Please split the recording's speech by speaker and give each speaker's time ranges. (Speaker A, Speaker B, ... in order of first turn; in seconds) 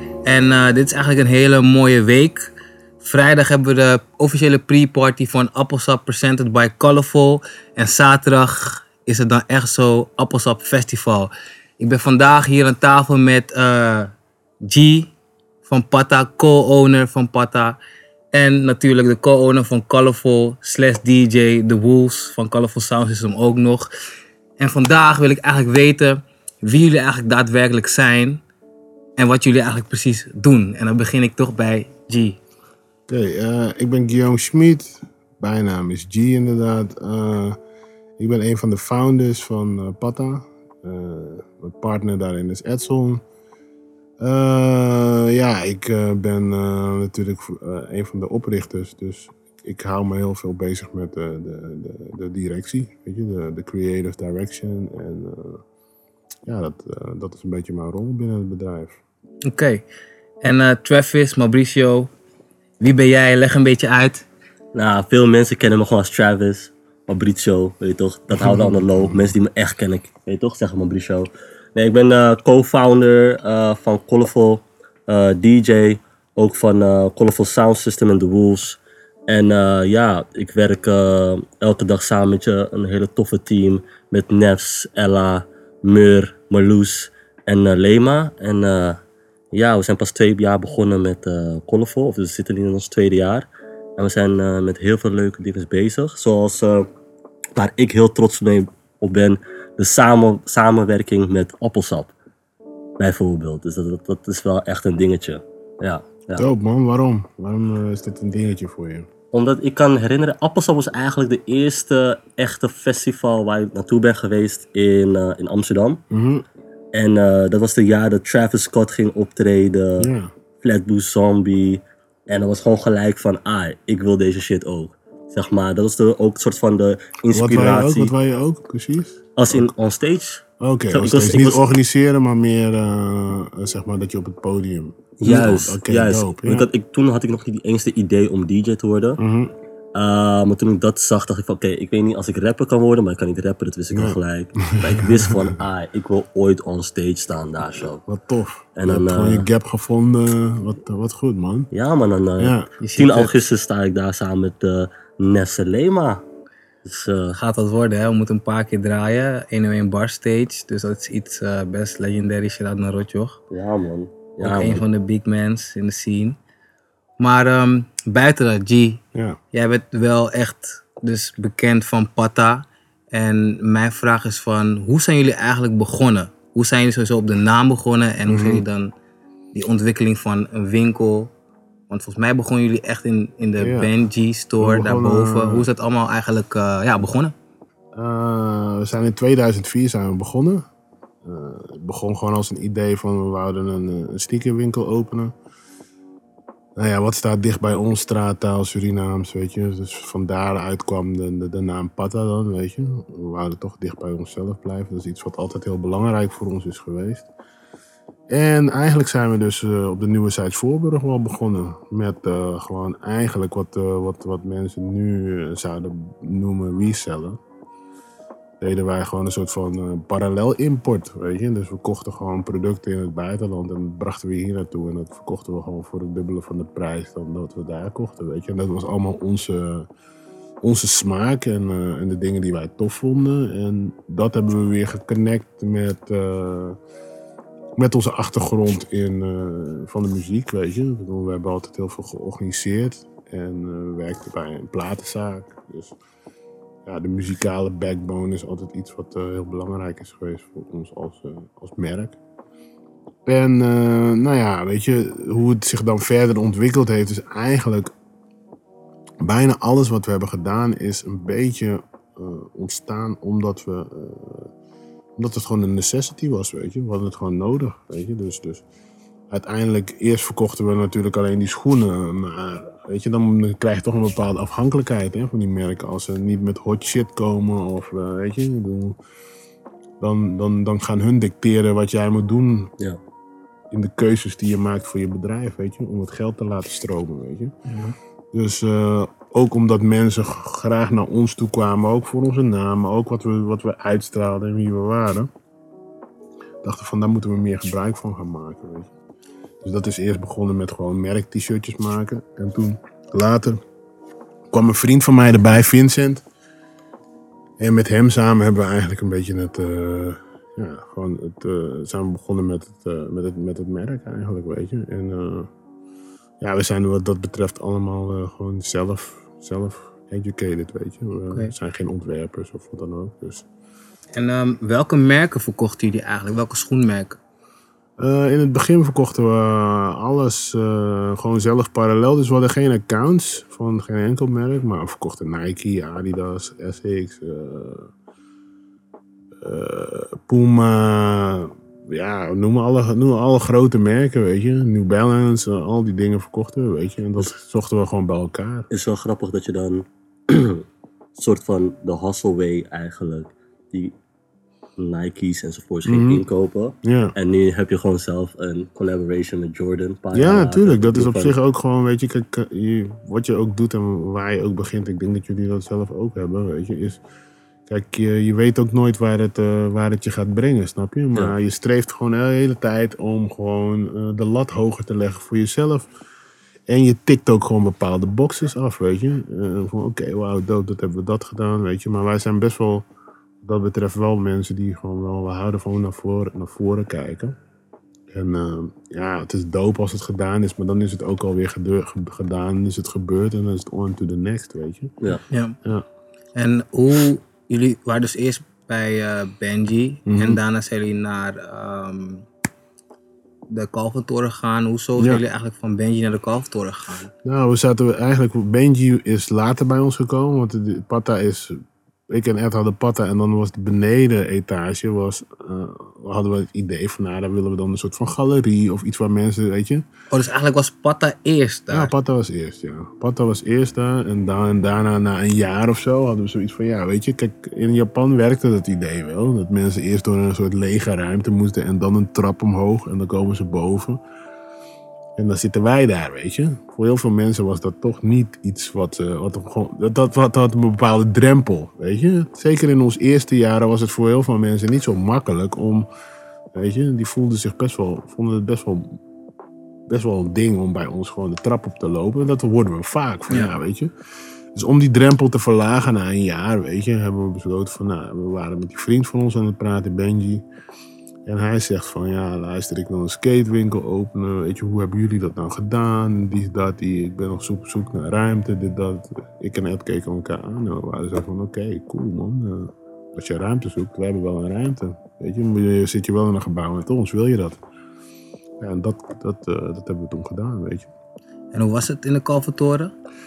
Speaker A: 0.2-2.5, 3.0-14.1, 14.7-15.1, 15.6-17.8, 18.3-23.9, 24.6-28.4, 29.2-32.4, 59.5-59.8, 60.4-62.1, 62.8-64.2, 152.8-153.3, 157.3-163.4, 164.4-166.4, 167.2-169.0, 169.5-178.9, 179.5-181.3, 181.9-187.3, 287.7-287.9, 324.1-327.2, 395.3-395.6, 396.3-402.2, 403.5-407.1, 420.1-421.9, 453.3-453.5, 481.5-482.9
Speaker B: 33.1-37.6, 38.2-43.2, 44.2-55.6, 56.5-59.0, 68.3-69.3, 106.4-109.1, 116.1-116.4, 120.0-120.3, 127.3-129.7, 130.6-136.7, 139.2-139.5, 143.9-145.5, 148.0-151.7, 152.4-152.7, 169.1-169.4, 178.2-178.6, 183.6-183.9, 184.6-185.7, 187.9-190.7, 191.2-195.3, 196.8-207.3, 208.3-217.4, 218.6-229.9, 230.6-236.8, 237.8-245.9, 246.8-252.2, 253.2-257.9, 259.2-264.5, 265.2-268.6, 269.3-279.0, 280.0-282.7, 283.7-287.5, 288.3-295.3, 296.6-298.9, 299.6-303.6, 304.5-306.2, 307.6-315.5, 316.4-323.5, 328.0-337.9, 339.4-348.7, 355.9-356.2, 356.8-357.1, 360.1-367.0, 367.7-375.9, 376.7-382.9, 383.4-387.3, 388.1-394.9, 400.1-400.4, 407.2-419.8, 421.7-434.0, 435.2-445.9, 446.5-449.0, 449.9-453.9, 454.5-460.4, 461.2-477.6, 478.6-480.9
Speaker C: 64.7-78.8, 79.3-89.0, 89.5-96.9, 97.5-102.1, 103.0-106.4, 109.3-116.0, 116.9-120.1, 120.6-128.1, 129.4-131.6, 135.2-139.2, 139.9-148.0, 148.8-149.4, 151.7-156.2, 156.8-157.3, 163.5-164.8, 348.7-350.6, 351.2-353.9, 354.8-361.3